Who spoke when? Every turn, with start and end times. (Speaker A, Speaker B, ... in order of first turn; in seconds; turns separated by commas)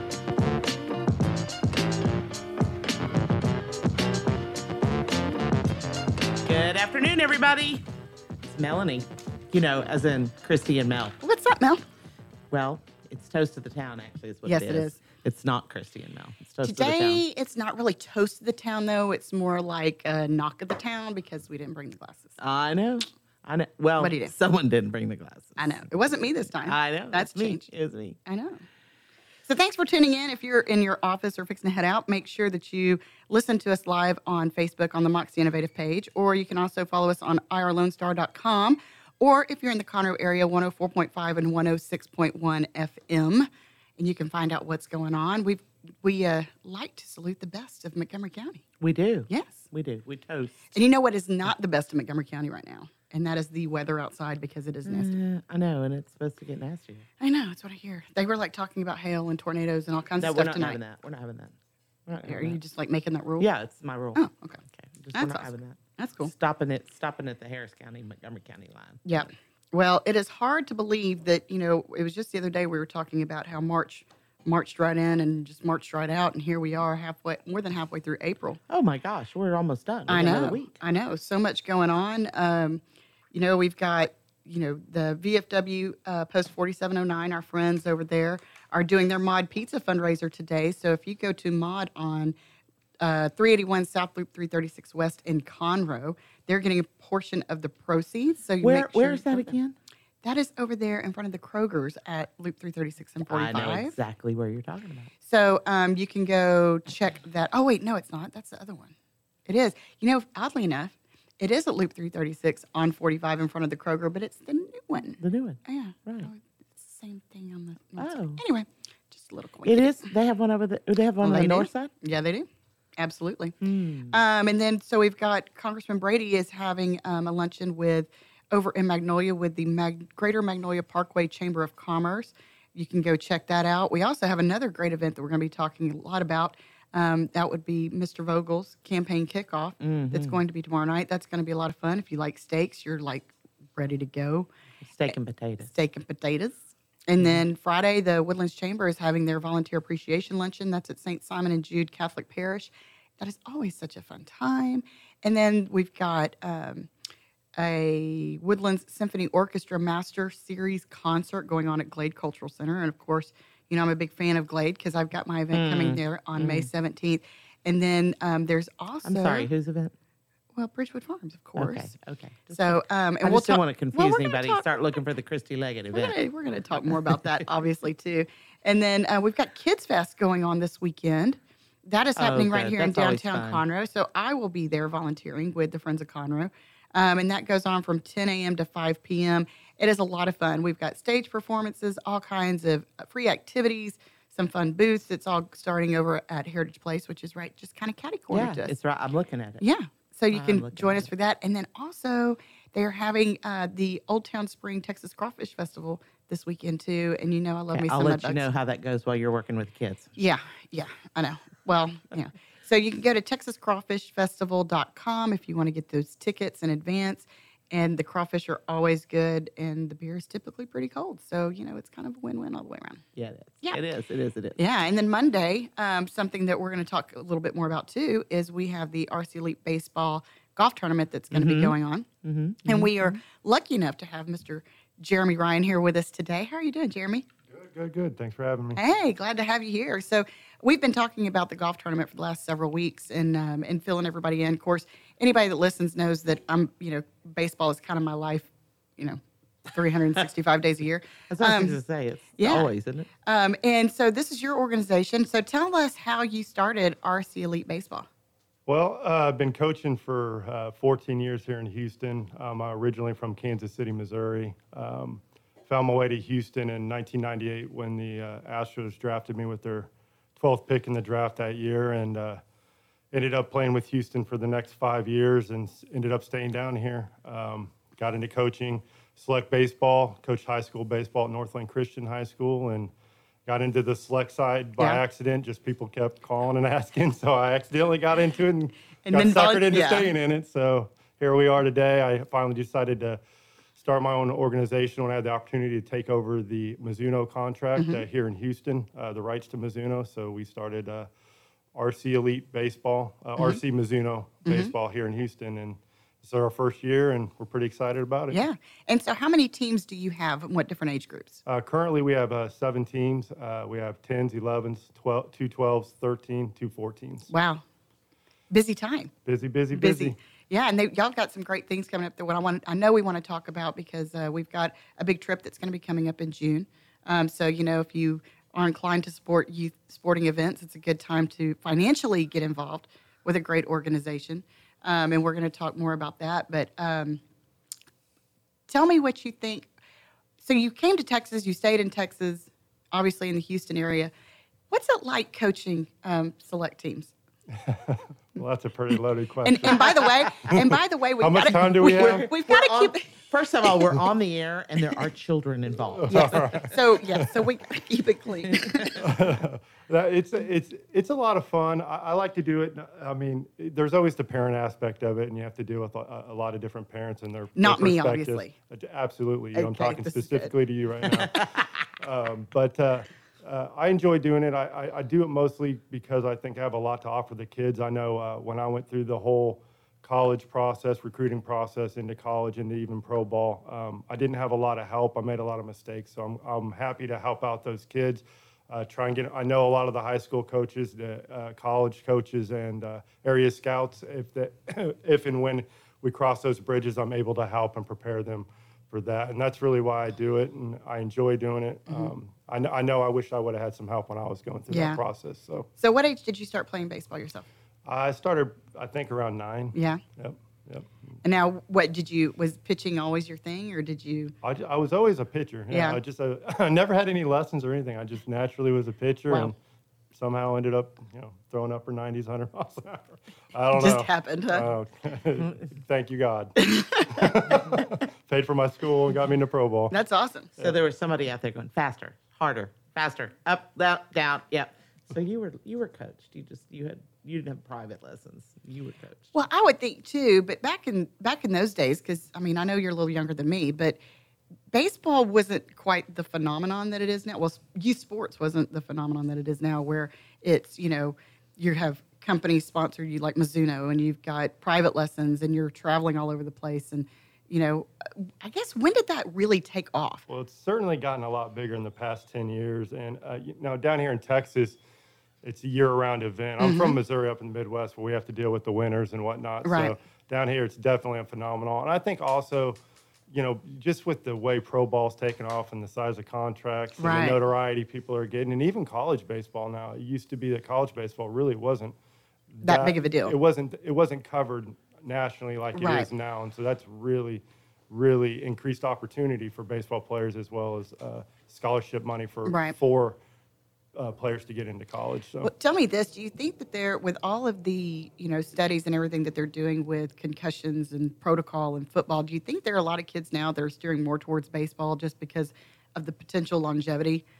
Speaker A: 6.4-7.8, Speaker A: 8.4-11.2, Speaker B: 11.2-11.8, Speaker A: 12.5-17.2, Speaker B: 14.4-15.0, Speaker B: 16.6-22.4, Speaker A: 22.4-25.9, Speaker B: 24.0-24.3, Speaker B: 25.6-27.7, Speaker A: 26.6-28.2, Speaker B: 28.2-28.6, Speaker B: 29.4-48.6, Speaker A: 48.8-50.8, Speaker B: 49.3-49.7, Speaker B: 50.7-55.1, Speaker A: 54.9-57.0, Speaker B: 57.2-60.8, Speaker A: 60.2-61.5, Speaker A: 62.1-62.6, Speaker B: 62.2-63.5, Speaker A: 63.4-69.2, Speaker B: 64.1-64.6, Speaker B: 65.1-66.3, Speaker B: 69.0-78.6, Speaker A: 78.7-80.8, Speaker B: 80.1-82.8, Speaker B: 83.3-92.3, Speaker B: 93.0-99.6, Speaker A: 98.6-99.7, Speaker B: 100.2-103.9, Speaker A: 103.3-105.1, Speaker B: 105.2-108.9, Speaker B: 109.5-120.1, Speaker A: 115.2-116.3, Speaker A: 118.0-118.4, Speaker A: 119.6-121.9, Speaker B: 121.2-122.5, Speaker B: 123.0-123.6, Speaker A: 123.6-124.2, Speaker B: 124.1-144.5, Speaker A: 139.8-140.4, Speaker A: 144.8-145.7, Speaker B: 145.1-156.9, Speaker A: 147.2-147.4, Speaker B: 157.6-169.5, Speaker A: 165.5-166.7, Speaker A: 169.0-169.9, Speaker B: 170.6-171.9, Speaker A: 171.6-176.2, Speaker B: 172.5-174.7, Speaker B: 175.9-198.7, Speaker A: 182.2-183.6, Speaker A: 198.3-199.6, Speaker B: 199.6-208.5, Speaker A: 200.3-201.1, Speaker A: 207.7-210.1, Speaker B: 210.2-223.0, Speaker A: 223.1-224.6, Speaker B: 224.6-232.1, Speaker A: 231.3-233.2, Speaker B: 232.6-237.2, Speaker C: 237.5-238.8, Speaker B: 238.8-251.8, Speaker A: 251.3-253.1, Speaker B: 252.4-252.7, Speaker B: 253.2-258.1, Speaker C: 258.7-272.4, Speaker C: 273.1-282.9, Speaker C: 283.4-293.2, Speaker B: 289.0-290.1, Speaker C: 293.8-301.1, Speaker B: 297.8-298.0, Speaker C: 301.7-308.4, Speaker B: 304.4-304.7, Speaker B: 308.3-311.4, Speaker C: 311.4-317.3, Speaker B: 317.3-317.6, Speaker B: 318.5-319.1, Speaker C: 319.2-320.2, Speaker B: 319.7-337.2, Speaker B: 338.7-339.7, Speaker B: 340.4-344.1, Speaker B: 344.7-347.1, Speaker C: 347.6-349.9, Speaker B: 349.4-353.1, Speaker C: 350.7-352.3, Speaker A: 351.7-356.7, Speaker B: 353.7-354.0, Speaker C: 356.1-357.4, Speaker B: 356.1-359.0, Speaker A: 358.5-358.9, Speaker C: 359.0-405.7, Speaker B: 367.6-368.5, Speaker B: 369.5-370.5, Speaker B: 404.7-405.0, Speaker B: 405.8-407.5, Speaker C: 407.8-410.9, Speaker B: 409.7-410.0, Speaker B: 411.2-414.3, Speaker C: 414.4-419.5, Speaker B: 415.7-416.0, Speaker C: 420.1-429.9, Speaker B: 423.7-424.7, Speaker B: 426.6-427.3, Speaker B: 429.9-430.5, Speaker A: 430.6-439.3, Speaker B: 439.3-444.0, Speaker B: 444.7-460.2, Speaker C: 460.3-464.8, Speaker C: 465.4-472.8, Speaker B: 466.6-467.0, Speaker B: 469.6-469.9, Speaker C: 473.3-481.9, Speaker B: 477.0-477.4, Speaker C: 482.5-493.2, Speaker B: 482.6-483.4, Speaker B: 485.7-486.1, Speaker B: 492.4-492.7, Speaker C: 493.9-495.5, Speaker B: 495.4-507.2